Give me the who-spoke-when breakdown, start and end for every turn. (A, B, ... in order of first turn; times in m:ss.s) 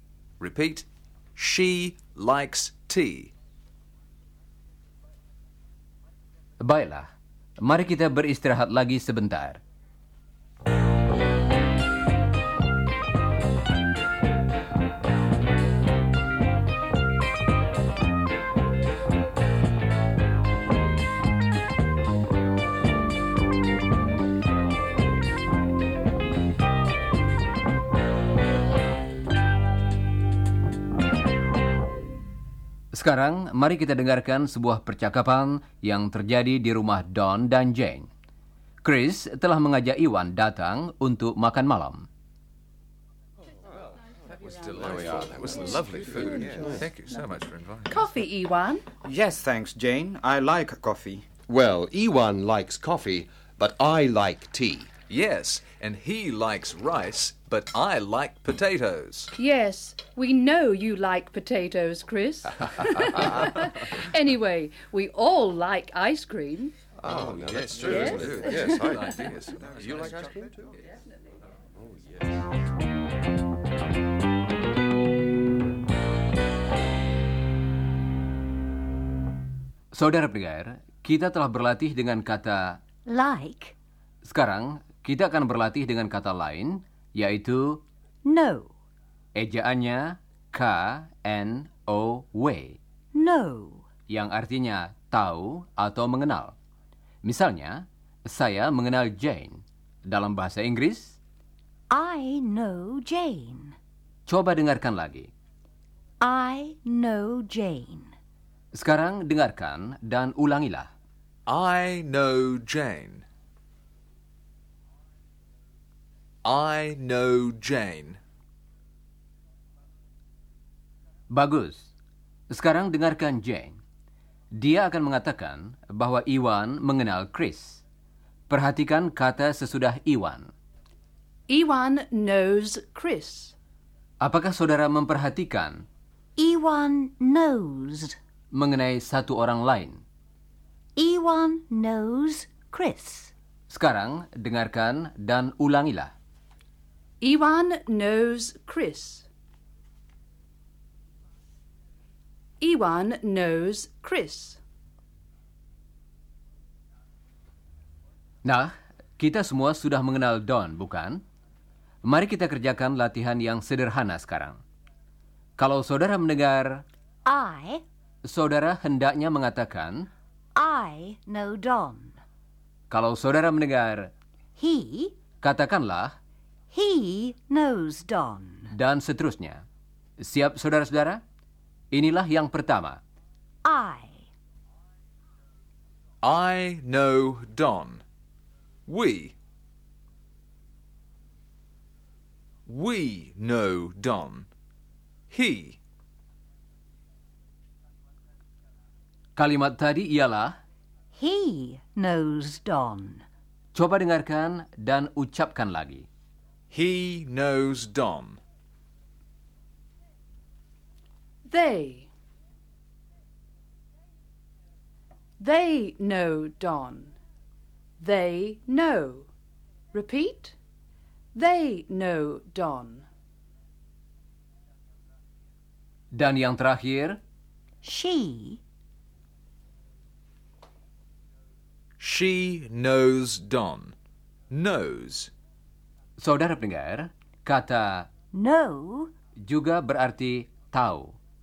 0:00.4-0:03.3 A
0:06.6-0:07.1 B
0:07.6-0:09.6 B
0:32.9-0:38.1 B
0:38.8-0:42.0 B
0:44.4-0:48.0 A
0:44.9-0:45.8 C
0:46.4-0:46.8 C
0:47.9-0:48.8 D
0:49.0-0:51.3 E
0:51.5-0:54.9 C
0:55.1-0:59.3 A
0:59.4-1:06.7 D
1:07.0-1:10.7 C
1:07.1-1:10.4 A
1:07.8-1:09.0 D
1:11.8-1:12.3 C
1:19.9-1:22.8 B
1:23.0-1:23.7 F
1:24.2-1:27.8 B
1:28.2-1:28.7 F
1:29.4-1:32.8 B
1:33.1-1:33.8 F
1:34.1-1:36.6 B
1:37.2-1:41.2 B
1:41.9-1:43.7 F
1:44.3-1:45.3 B
1:46.2-1:48.1 F
1:48.7-1:50.9 B
1:51.5-1:53.2 A
1:56.4-1:58.2 A
2:01.3-2:01.9 B
2:02.5-2:03.8 B
2:04.5-2:07.8 B
2:08.5-2:10.5 B
2:11.5-2:13.5 D
2:14.2-2:15.8 B
2:16.4-2:18.2 F
2:18.5-2:20.0 B
2:21.0-2:23.3 F
2:23.7-2:26.1 B
2:27.2-2:29.3 D
2:32.6-2:34.6 D
2:38.4-2:41.2 B
2:42.0-2:44.6 B
2:45.6-2:46.8 B
2:47.2-2:47.8 F
2:48.2-2:50.1 B
2:50.5-2:52.2 F
2:52.9-2:54.1 B
2:54.6-2:55.1 F
2:55.4-2:56.1 B
2:56.7-2:58.7 F
2:58.7-2:59.6 B
3:00.2-3:01.2 B
3:01.9-3:03.0 B
3:03.6-3:04.2 F
3:06.2-3:08.0 A
3:08.9-3:09.3 A
3:12.7-3:14.5 A
3:15.3-3:15.8 A
3:19.4-3:20.6 B
3:21.1-3:23.2 F
3:23.7-3:26.1 B
3:26.7-3:28.4 A
3:31.5-3:32.1 D
3:35.4-3:37.1 D
3:38.0-3:39.3 D
3:39.9-3:40.6 D
3:41.3-3:43.0 D
3:46.1-3:47.2 B
3:47.8-3:48.6 F
3:52.0-3:53.9 A
3:54.5-3:55.3 A
3:56.2-3:58.1 B
3:58.3-3:59.1 F
3:59.4-4:01.2 B